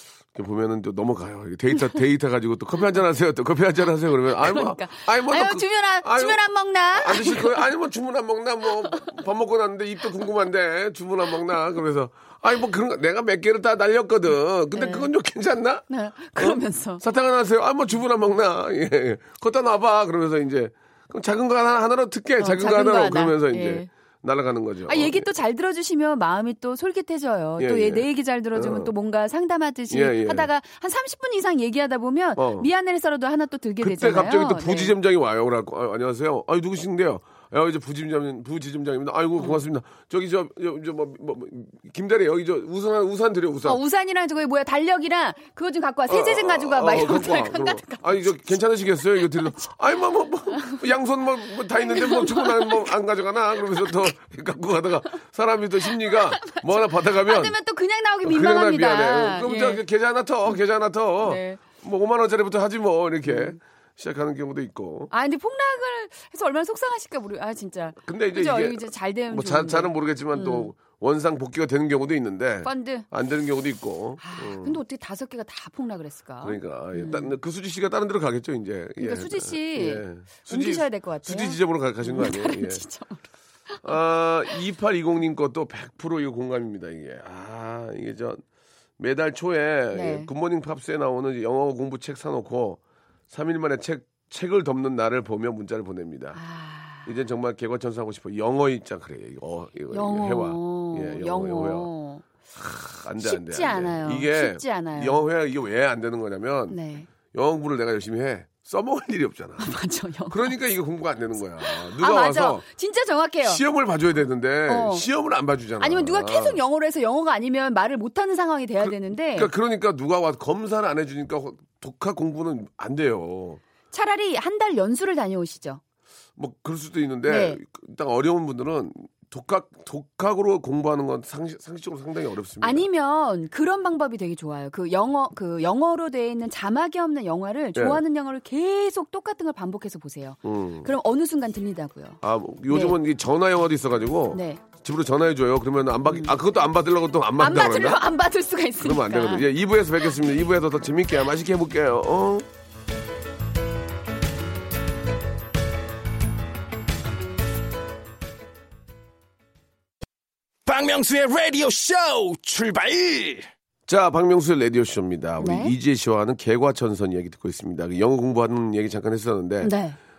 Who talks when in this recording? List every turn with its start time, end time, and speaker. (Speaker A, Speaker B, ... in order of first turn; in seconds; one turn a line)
Speaker A: 0.3-6.4
Speaker B: 4.3-7.7
Speaker A: 6.9-15.8
Speaker B: 14.7-15.1
Speaker B: 15.9-17.0
Speaker A: 16.4-25.3
Speaker B: 22.4-23.9
Speaker B: 24.9-35.0
Speaker A: 27.6-28.9
Speaker A: 29.9-30.5
Speaker A: 32.4-32.7
Speaker A: 33.8-43.8
Speaker B: 43.6-48.5
Speaker A: 46.1-57.6
Speaker B: 51.8-52.9
Speaker B: 55.9-59.8
Speaker A: 58.2-65.1
Speaker B: 61.2-61.6
Speaker B: 63.3-63.6
Speaker B: 65.1-70.7
Speaker A: 68.0-74.8
Speaker B: 72.6-73.1
Speaker B: 74.2-77.3
Speaker A: 76.4-82.8
Speaker B: 79.0-84.0
Speaker A: 83.8-88.4
Speaker A: 89.0-96.4
Speaker B: 89.9-90.3
Speaker B: 96.3-97.1
Speaker A: 97.0-101.9
Speaker B: 99.9-102.2
Speaker A: 102.5-106.8
Speaker B: 103.2-105.2
Speaker B: 106.7-107.1
Speaker A: 107.3-109.8
Speaker B: 109.6-110.5
Speaker A: 110.3-112.6
Speaker B: 111.6-113.6
Speaker A: 113.4-116.6
Speaker B: 114.7-115.0
Speaker B: 115.8-119.5
Speaker A: 118.8-123.6
Speaker B: 123.9-125.8
Speaker A: 126.4-132.9
Speaker B: 127.3-127.6
Speaker B: 132.6-143.0
Speaker A: 137.8-138.0
Speaker A: 140.4-140.9
Speaker A: 142.2-148.1
Speaker B: 144.3-144.6
Speaker B: 146.1-146.4
Speaker B: 147.4-149.5
Speaker A: 148.8-152.5
Speaker C: 160.7-163.5
Speaker A: 163.9-169.7
Speaker B: 165.4-165.7
Speaker B: 169.6-170.0